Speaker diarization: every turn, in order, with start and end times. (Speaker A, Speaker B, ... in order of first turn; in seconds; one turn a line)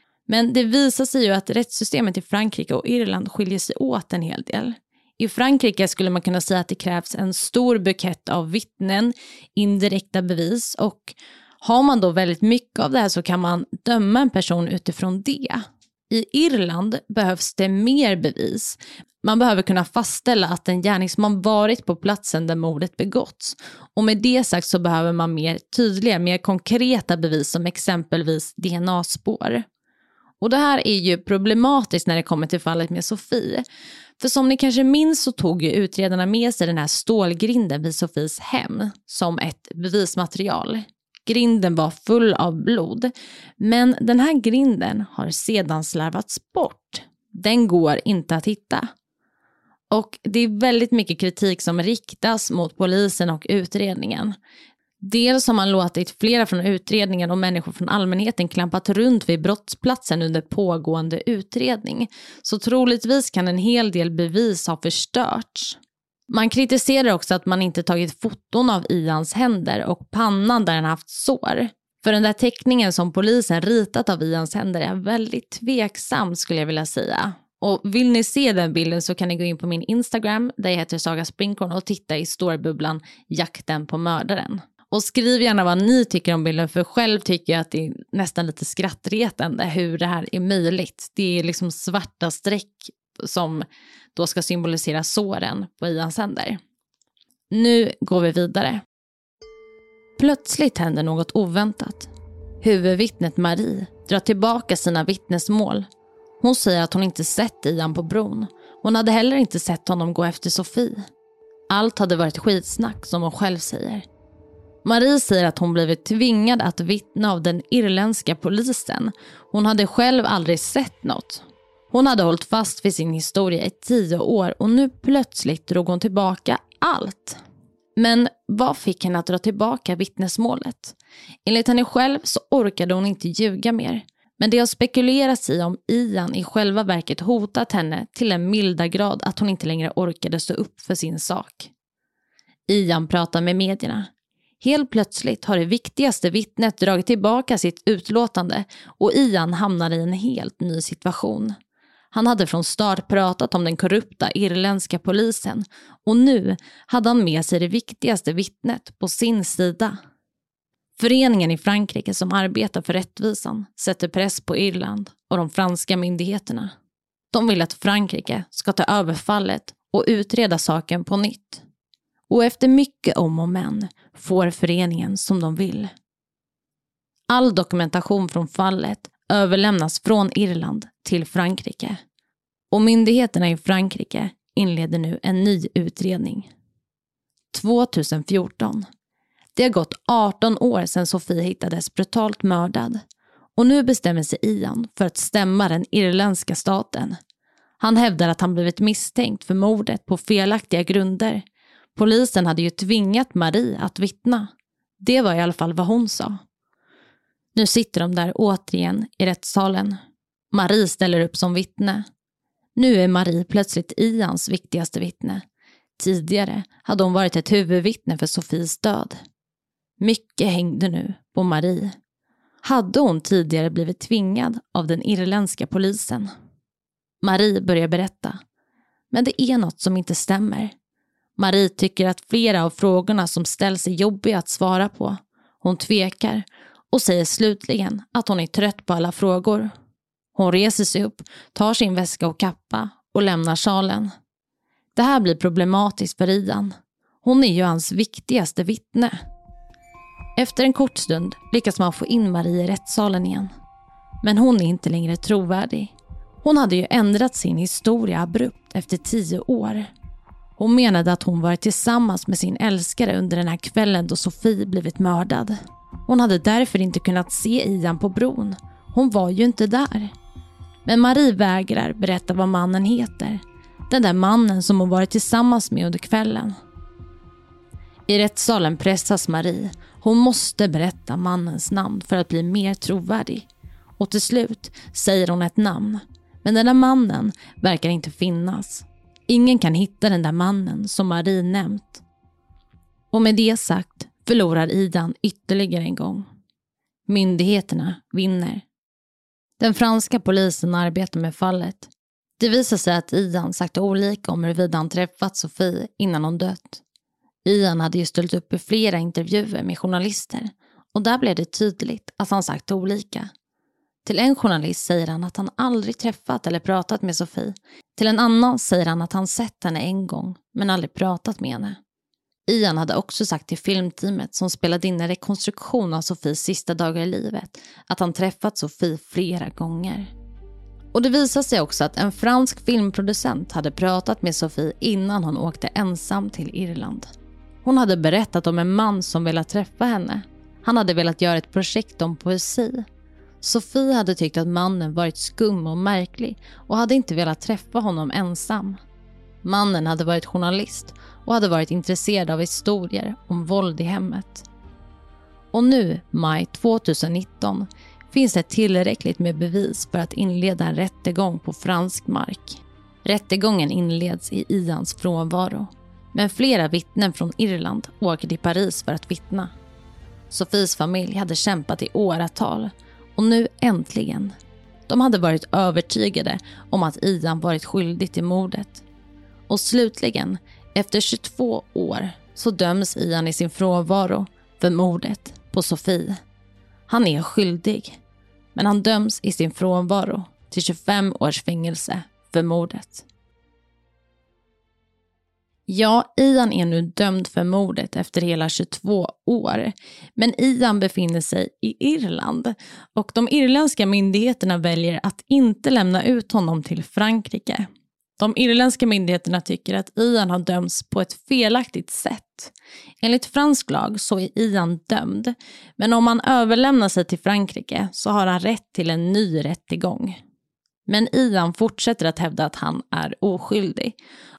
Speaker A: 0.3-29.6
Speaker A: 30.4-33.6
Speaker A: 34.2-48.9
Speaker A: 49.9-54.3
Speaker A: 55.0-65.8
Speaker A: 66.3-96.6
Speaker A: 97.5-98.8
Speaker A: 100.2-102.1
Speaker A: 102.6-105.9
Speaker A: 106.4-111.0
Speaker A: 111.7-114.0
Speaker A: 114.8-127.4
Speaker A: 128.0-141.7
Speaker A: 142.7-144.1
Speaker A: 144.6-151.5
Speaker A: 152.1-159.9
Speaker A: 161.0-166.7
Speaker A: 167.3-171.6
Speaker A: 172.3-175.9
Speaker A: 177.3-182.0
Speaker A: 182.7-186.5
Speaker A: 187.5-188.8
Speaker A: 189.5-193.0
Speaker A: 193.6-197.2
Speaker A: 197.8-204.5
Speaker A: 205.0-206.4
Speaker A: 207.5-210.0
Speaker A: 210.5-212.0
Speaker A: 212.8-215.4
Speaker A: 216.0-219.2
Speaker A: 220.0-221.9
Speaker A: 222.6-226.3
Speaker A: 227.2-228.4
Speaker A: 229.1-230.7
Speaker A: 231.4-239.7
Speaker A: 240.3-244.1
Speaker A: 244.9-249.2
Speaker A: 250.4-253.5
Speaker A: 254.2-259.9
Speaker A: 260.6-270.1
Speaker A: 270.9-276.6
Speaker A: 278.1-283.5
Speaker A: 284.0-292.0
Speaker A: 293.1-296.2
Speaker A: 297.1-298.6
Speaker A: 299.6-306.8
Speaker A: 307.4-313.3
Speaker A: 314.0-321.8
Speaker A: 322.5-330.1
Speaker A: 330.9-337.1
Speaker A: 337.6-342.9
Speaker A: 343.4-348.8
Speaker A: 349.4-354.4
Speaker A: 355.5-369.5
Speaker A: 370.3-374.3
Speaker A: 374.9-378.8
Speaker A: 379.5-386.2
Speaker A: 386.9-388.0
Speaker A: 388.5-393.1
Speaker A: 395.7-407.6
Speaker A: 408.2-420.2
Speaker A: 420.9-423.9